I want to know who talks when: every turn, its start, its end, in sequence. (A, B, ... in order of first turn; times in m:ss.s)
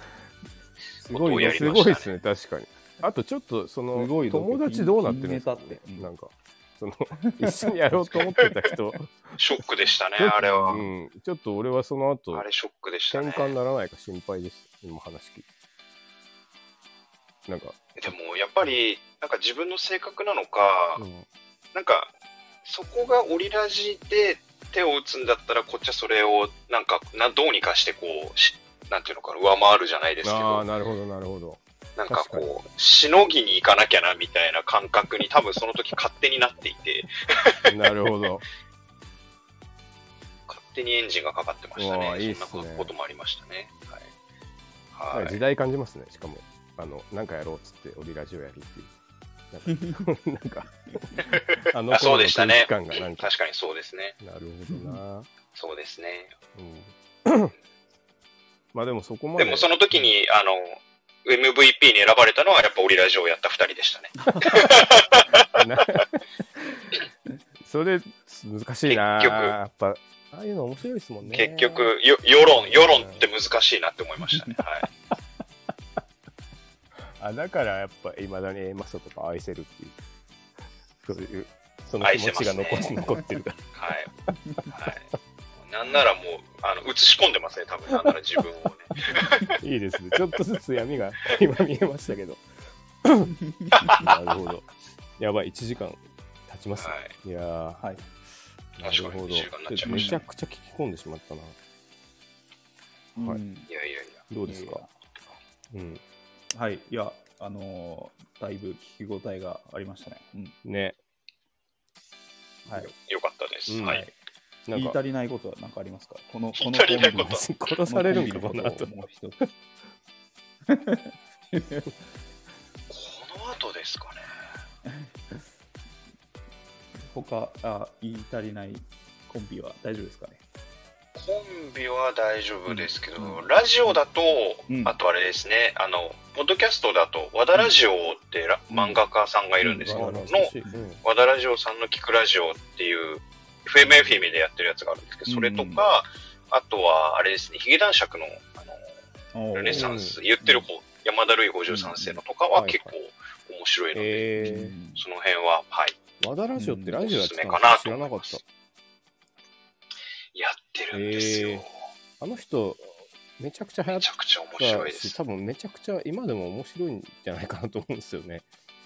0:01.0-0:01.8 A
0:01.1-0:02.1 B
0:01.3-0:09.4 C
0:03.9-0:06.1 A
0:07.3-0:08.2 A
0:09.4-0:10.8 B
0:10.2-0:12.4 C
0:12.3-0:13.5 B
0:13.1-0:15.4 C
0:17.5-0:18.1 C
0:18.0-0:21.0 B
0:21.0-0:21.3 C
0:21.7-0:22.1 B
0:22.6-0:30.6 B
0:30.2-0:32.5 C
0:32.0-0:37.9 B
0:37.6-0:38.4 C
0:40.5-0:44.1 B
0:41.8-0:42.9 C
0:44.9-0:45.4 B
0:45.1-0:48.9 C
0:49.5-0:53.3 C
0:51.9-0:54.2 B
0:54.2-0:55.3 C
0:54.7-0:55.0 A
0:55.5-0:56.3 B
0:56.5-0:57.5 C
0:58.7-1:00.1 C
0:59.4-1:06.0 B
1:04.3-1:04.6 A
1:05.5-1:06.8 C
1:07.6-1:11.9 C
1:08.8-1:09.6 B
1:11.3-1:14.9 B
1:12.5-1:13.2 C
1:17.2-1:19.9 C
1:21.0-1:23.6 C
1:22.0-1:22.9 B
1:23.7-1:24.1 B
1:24.7-1:25.0 B
1:25.6-1:29.5 B
1:29.6-1:32.4 C
1:33.0-1:33.3 C
1:33.5-1:33.9 A
1:33.7-1:34.1 B
1:33.9-1:37.9 C
1:36.8-1:37.1 B
1:37.8-1:38.0 A
1:38.8-1:41.6 C
1:38.8-1:40.2 B
1:39.7-1:40.2 A
1:43.1-1:43.7 A
1:43.2-1:43.4 C
1:43.7-1:44.2 B
1:44.3-1:44.8 C
1:44.4-1:44.9 A
1:45.7-1:46.0 C
1:46.5-1:50.6 A
1:50.6-1:51.0 C
1:52.6-1:52.9 A
1:53.0-1:54.0 B
1:53.7-1:54.0 C
1:53.8-1:54.1 A
1:54.7-1:55.0 C
1:54.7-1:59.4 A
1:56.6-1:57.5 B
1:57.1-1:59.4 C
2:00.7-2:01.9 A
2:02.9-2:04.3 B
2:04.8-2:05.4 A
2:07.0-2:10.4 A
2:11.1-2:28.8 B
2:12.7-2:14.0 A
2:14.7-2:15.0 A
2:18.7-2:19.0 A
2:19.6-2:20.9 A
2:19.8-2:21.0 C
2:25.2-2:25.8 A
2:29.3-2:30.7 A
2:29.5-2:34.3 B
2:29.7-2:30.2 C
2:31.7-2:32.2 A
2:32.5-2:32.9 C
2:33.9-2:34.8 C
2:34.4-2:35.0 A
2:34.9-2:36.0 B
2:36.2-2:38.4 C
2:36.6-2:37.0 A
2:37.0-2:38.4 B
2:40.3-2:41.8 B
2:40.9-2:41.6 C
2:42.2-2:48.4 C
2:43.9-2:45.2 B